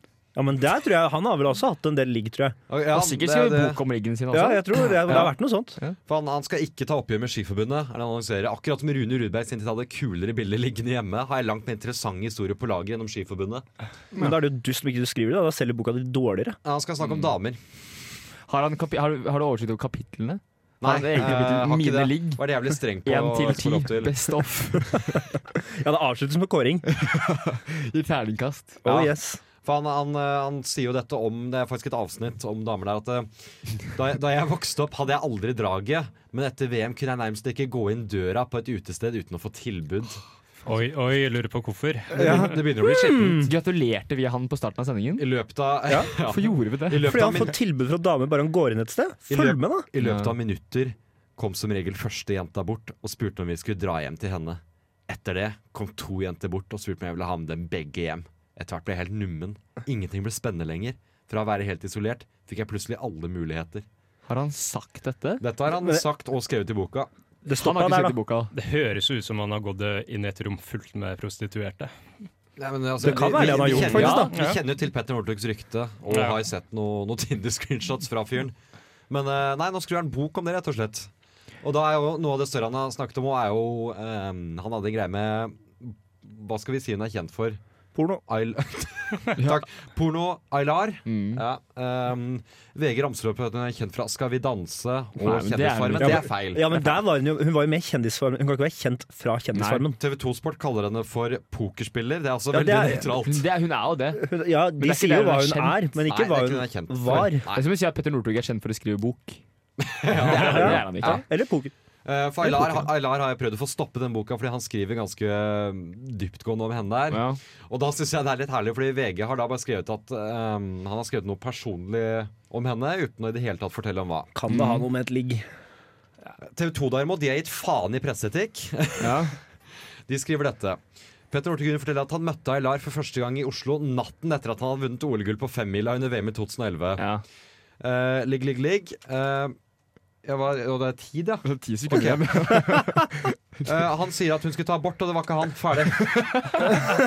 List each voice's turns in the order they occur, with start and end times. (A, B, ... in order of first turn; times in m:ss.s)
0:00.4-0:02.6 A
0:02.7-0:03.8 B
0:02.9-0:06.0 C
0:04.3-0:05.8 A
0:06.1-0:13.6 B
0:14.1-0:16.6 A
0:16.6-0:17.6 B
0:18.5-0:25.2 C
0:20.8-0:24.3 B
0:25.6-0:26.9 A
0:26.9-0:28.8 C
0:28.8-0:29.4 A
0:28.8-0:33.3 B
0:33.8-0:40.2 B
0:40.6-0:42.4 D
0:42.1-0:43.5 B
0:42.2-0:43.5 A
0:43.4-0:45.3 C
0:45.2-0:47.5 B
0:46.2-0:47.0 C
0:47.0-0:49.8 A
0:49.3-1:03.8 B
0:50.0-0:50.3 C
1:04.3-1:05.4 C
1:05.4-1:07.1 B
1:05.8-1:06.0 A
1:07.4-1:08.2 A
1:07.5-1:08.5 C
1:08.5-1:11.9 D
1:12.6-1:18.6 B
1:13.0-1:14.3 A
1:13.4-1:14.3 C
1:14.3-1:14.6 D
1:16.1-1:16.4 D
1:19.1-1:21.1 B
1:21.6-1:27.6 B
1:28.3-1:36.7 B
1:29.4-1:29.6 C
1:31.0-1:31.4 C
1:35.2-1:36.3 C
1:36.0-1:40.0 A
1:39.5-1:39.8 C
1:40.0-1:43.4 B
1:42.5-1:43.2 A
1:43.1-1:45.9 C
1:44.1-1:47.5 A
1:46.0-1:47.6 B
1:47.1-1:49.4 C
1:49.8-1:51.2 B
1:50.2-1:51.2 C
1:50.3-1:51.7 A
1:52.0-2:04.3 B
1:57.1-1:57.4 C
2:04.3-2:05.4 A
2:04.5-2:04.8 C
2:06.4-2:09.4 B
2:09.0-2:09.4 C
2:10.1-2:17.1 B
2:17.0-2:17.2 C
2:17.8-2:19.6 B
2:20.2-2:22.4 B
2:21.4-2:23.2 C
2:23.6-2:26.4 B
2:26.0-2:26.8 C